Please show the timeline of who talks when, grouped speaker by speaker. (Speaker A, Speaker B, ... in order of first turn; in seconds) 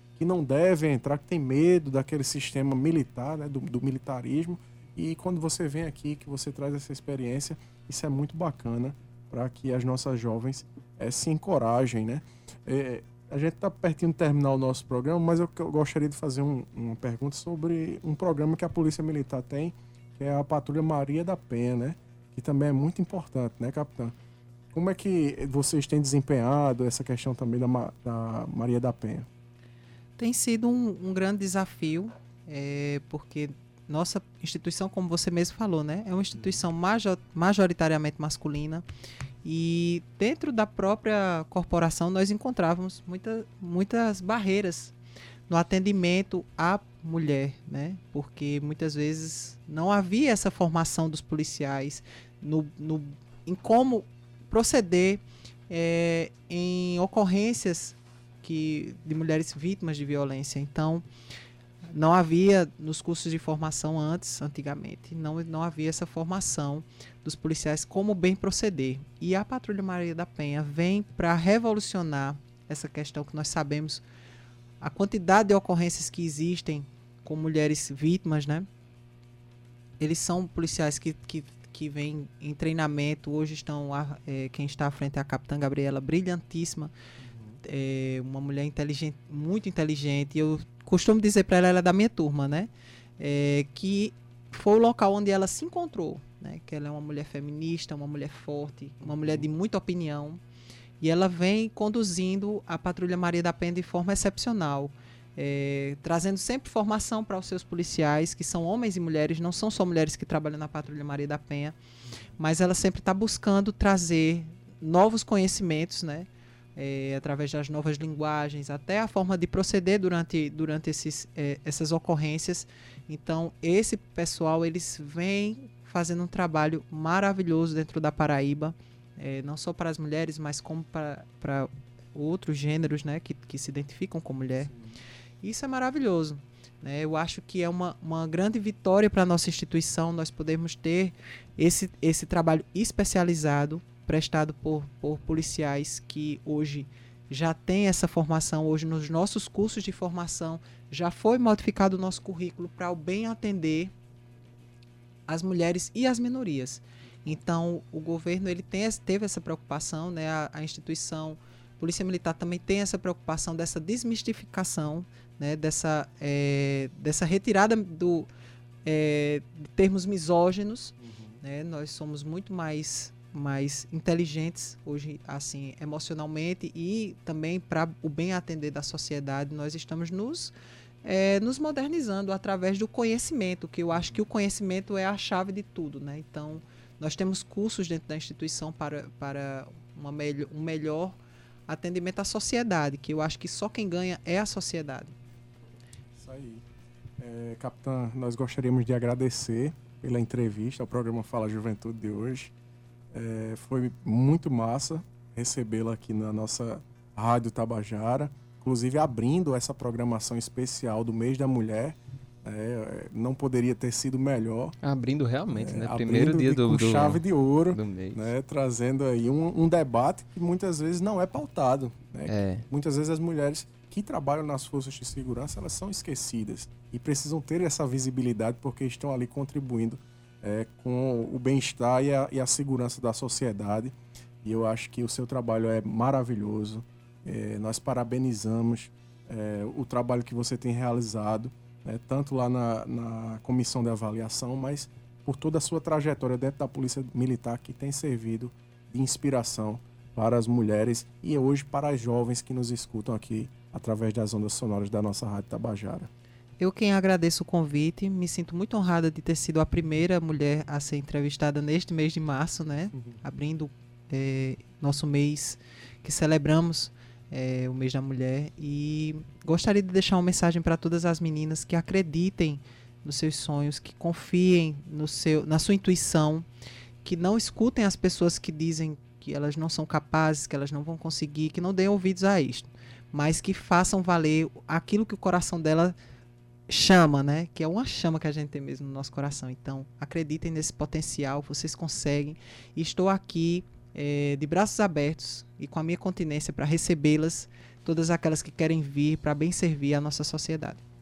Speaker A: 0.2-24.1, 24.7-29.3, 87.2-87.6, 99.2-99.4, 134.7-135.0, 171.0-171.4, 196.2-196.6, 197.2-202.5, 203.1-214.8, 215.5-256.1
Speaker B: 30.2-38.9, 39.4-44.9, 45.5-61.0, 61.9-74.0, 74.8-78.7, 80.0-86.9, 87.6-100.4, 101.0-111.8, 112.4-134.7, 135.4-153.9, 155.3-168.3, 168.8-191.2, 191.7-195.2, 256.6-276.5, 277.0-285.9, 286.7-300.8
Speaker C: 214.8-218.3, 222.3-222.7